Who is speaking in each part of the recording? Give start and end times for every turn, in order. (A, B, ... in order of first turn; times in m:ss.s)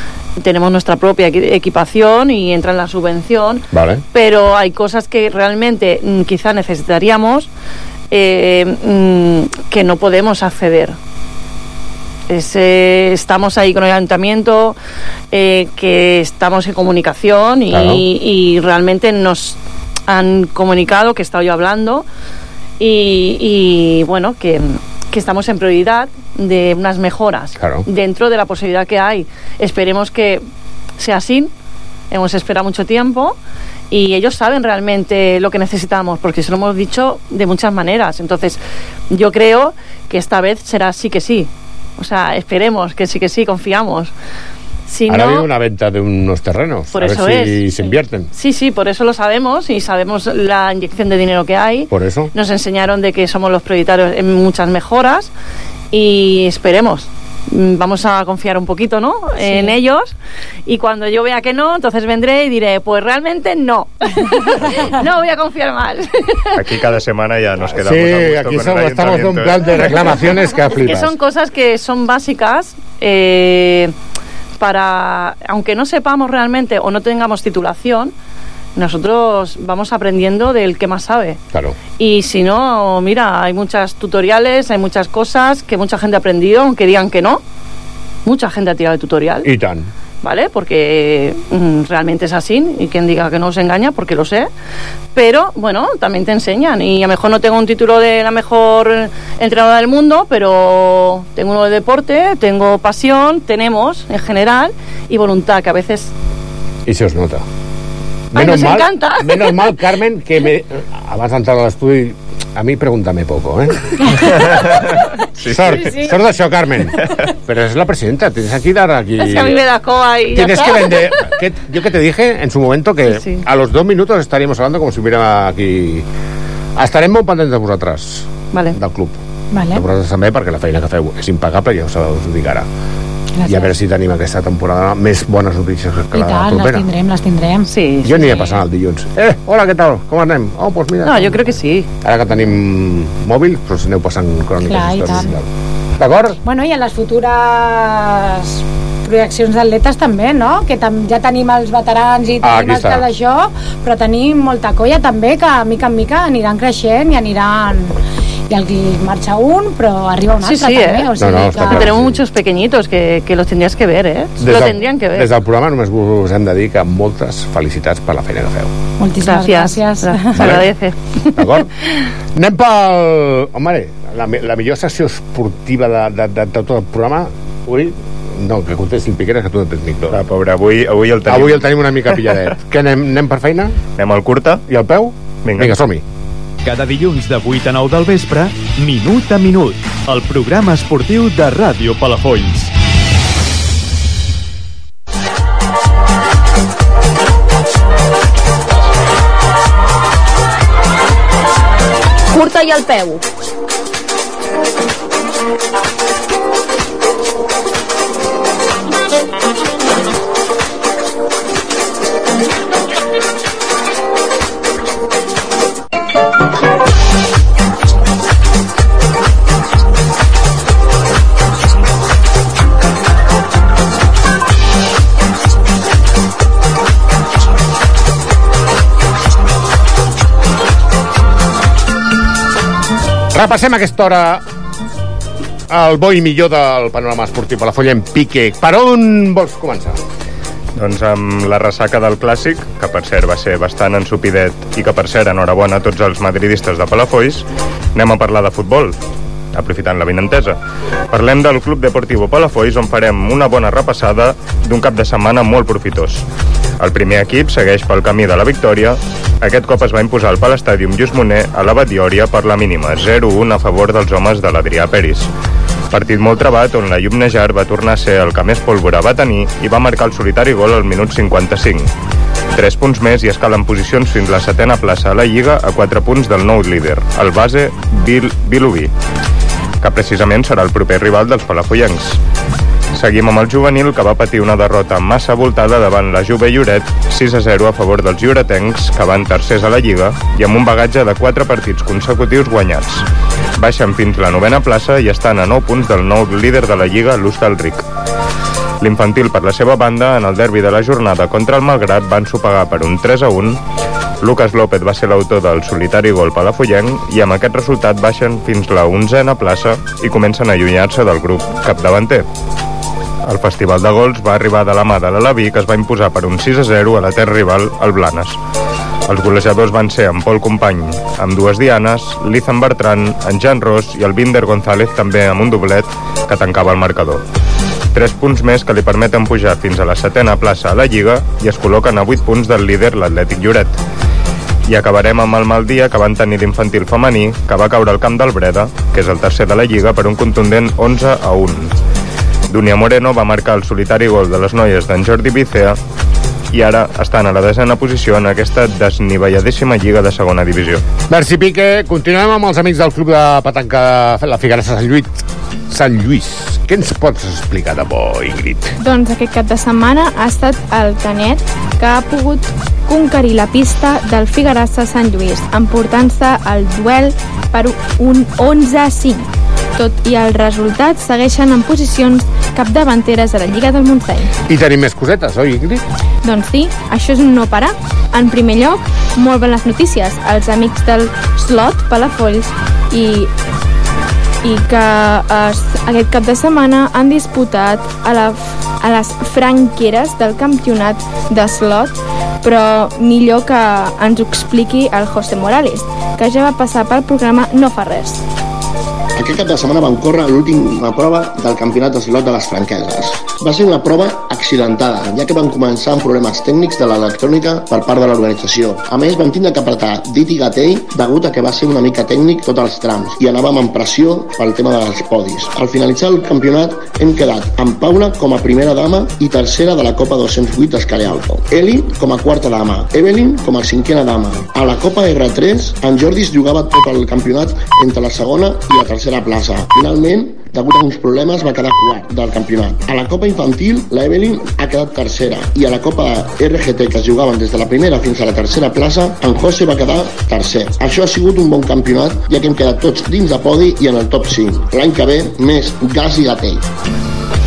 0:00.4-0:07.5 A
0:03.7-0:04.0 B
0:08.1-0:11.0 A
0:12.3-0:14.8 A
0:15.3-0:22.0 A
0:17.7-0:18.0 B
0:22.8-0:30.4 A
0:27.6-0:27.9 B
0:31.0-0:31.5 A
0:32.1-0:33.4 A
0:33.9-0:38.6 A
0:39.1-0:44.1 A
0:44.9-0:45.5 A
0:45.1-0:48.3 B
0:46.9-0:55.3 A
0:51.9-0:52.3 B
0:55.9-1:00.1 A
0:59.4-0:59.7 C
1:00.7-1:06.5 A
1:06.5-1:09.8 D
1:07.6-1:11.1 B
1:10.7-1:13.9 A
1:14.6-1:18.1 A
1:18.8-1:21.4 A
1:22.0-1:27.4 A
1:28.2-1:29.5 A
1:29.4-1:29.9 B
1:30.2-1:34.5 A
1:35.1-1:46.1 A
1:46.9-1:47.4 B
1:48.3-1:54.8 B
1:48.4-1:49.8 A
1:54.5-1:54.8 D
1:55.4-1:55.7 D
1:55.4-1:59.6 B
1:59.2-2:01.1 A
2:00.4-2:06.0 B
2:03.1-2:03.4 A
2:06.8-2:09.2 B
2:09.5-2:09.8 C
2:09.7-2:12.6 B
2:13.4-2:13.7 C
2:13.4-2:16.9 B
2:16.1-2:17.7 C
2:17.7-2:18.6 A
2:18.0-2:21.5 B
2:21.0-2:21.9 A
2:22.0-2:25.4 B
2:24.6-2:25.3 C
2:26.0-2:26.4 B
2:26.4-2:41.9 C
2:32.4-2:33.1 B
2:40.4-2:45.3 A
2:41.2-2:42.2 B
2:44.4-2:48.7 B
2:49.0-2:50.6 C
2:49.2-2:51.9 A
2:50.3-2:50.7 B
2:51.3-2:51.7 B
2:52.3-3:00.2 B
3:00.1-3:02.5 D
3:01.2-3:03.8 B
3:04.0-3:04.6 D
3:04.7-3:06.0 B
3:05.4-3:05.8 D
3:06.6-3:12.7 E
3:22.3-3:23.2 F
3:53.3-3:54.4 B
3:55.7-4:00.0 B
4:00.8-4:09.0 D
4:09.5-4:10.6 D
4:11.1-4:16.2 D
4:16.8-4:25.3 D
4:25.9-4:31.9 D
4:32.5-4:38.9 D
4:39.8-4:42.2 D
4:42.9-4:53.0 D
4:53.6-4:57.8 D
4:58.8-5:03.6 D
5:04.2-5:12.2 D
5:13.3-5:18.4 D
5:19.1-5:27.2 D
5:27.9-5:33.8 D
5:34.7-5:41.7 D
5:42.5-5:45.8 D
5:46.5-5:50.8 D
5:51.1-5:58.7 B
5:58.8-6:14.3 F
6:14.5-6:15.8 B
6:16.2-6:23.3 F
6:24.4-6:38.2 F
6:39.2-7:26.6 G